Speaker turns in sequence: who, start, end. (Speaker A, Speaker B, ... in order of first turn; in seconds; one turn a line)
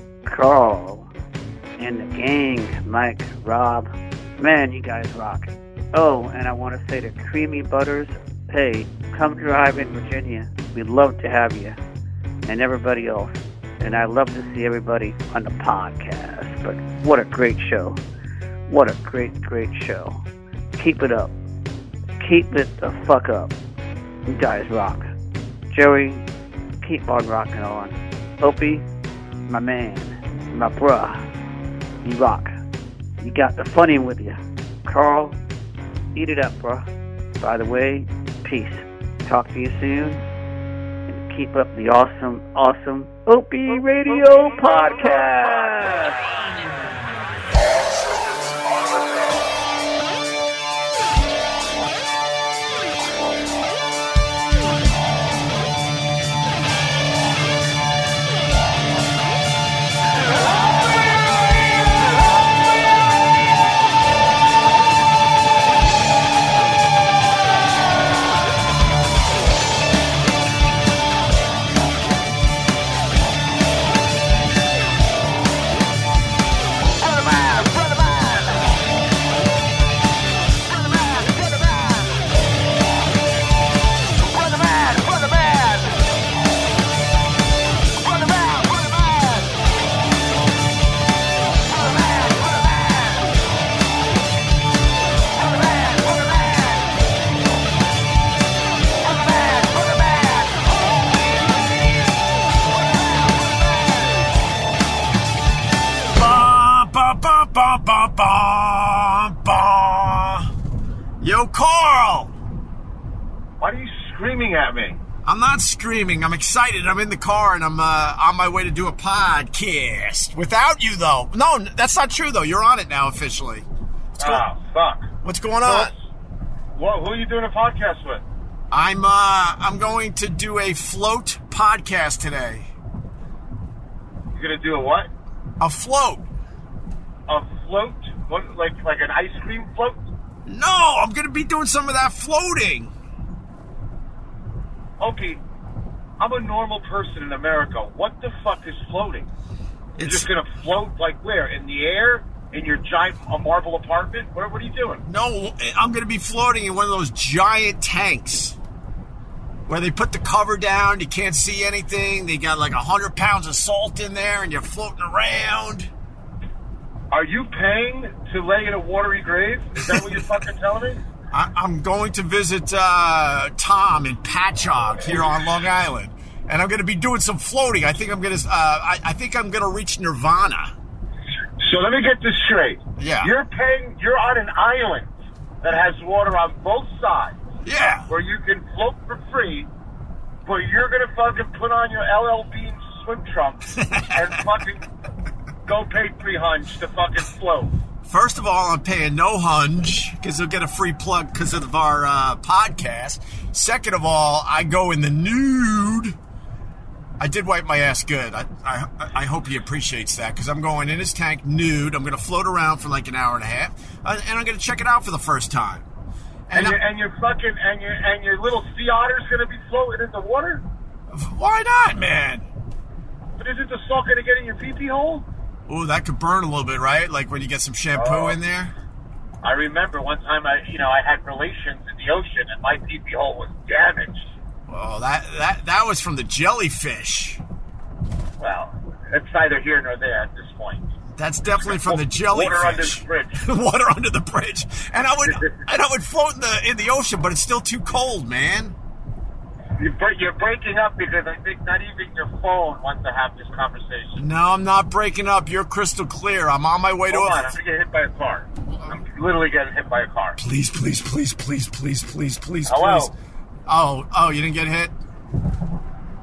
Speaker A: 0.3-1.1
Speaker A: 1.8-11.8
Speaker A: 12.5-18.0
Speaker A: 18.7-20.2
Speaker A: 20.8-21.3
Speaker A: 22.2-23.5
Speaker A: 24.3-25.1
Speaker A: 25.7-26.2
Speaker A: 26.8-28.9
Speaker A: 29.5-31.2
Speaker A: 32.0-32.5
Speaker A: 33.2-35.4
Speaker A: 36.1-36.9
Speaker A: 37.4-40.2
Speaker A: 41.1-46.2
Speaker B: 106.1-110.5
Speaker B: 111.2-112.3
Speaker C: 113.6-115.0
Speaker B: 115.2-124.5
Speaker C: 124.2-125.1
Speaker B: 125.2-125.9
Speaker C: 125.6-126.1
Speaker C: 126.8-128.2
Speaker B: 128.7-132.7
Speaker C: 134.3-135.1
Speaker B: 135.6-136.3
Speaker C: 137.3-140.0
Speaker B: 140.5-142.9
Speaker C: 145.0-145.4
Speaker C: 146.2-149.3
Speaker B: 150.0-150.3
Speaker C: 150.0-155.1
Speaker B: 155.1-158.6
Speaker B: 159.7-165.9
Speaker C: 167.1-171.0
Speaker B: 169.8-170.3
Speaker B: 171.3-180.7
Speaker C: 181.6-187.4
Speaker B: 183.0-183.3
Speaker B: 187.6-188.1
Speaker C: 188.1-189.7
Speaker C: 190.4-194.9
Speaker B: 193.8-194.3
Speaker C: 195.7-197.7
Speaker B: 198.1-206.2
Speaker B: 207.2-215.8
Speaker B: 216.5-216.8
Speaker C: 216.5-220.6
Speaker B: 221.1-222.5
Speaker C: 223.4-225.3
Speaker B: 225.7-228.7
Speaker C: 227.9-228.4
Speaker C: 229.4-234.3
Speaker B: 234.7-237.4
Speaker C: 238.4-240.9
Speaker B: 241.2-248.8
Speaker C: 241.6-243.4
Speaker C: 245.3-245.6
Speaker C: 249.8-254.2
Speaker B: 254.2-257.5
Speaker C: 257.1-260.4
Speaker B: 260.4-263.1
Speaker C: 262.7-263.1
Speaker B: 263.7-264.9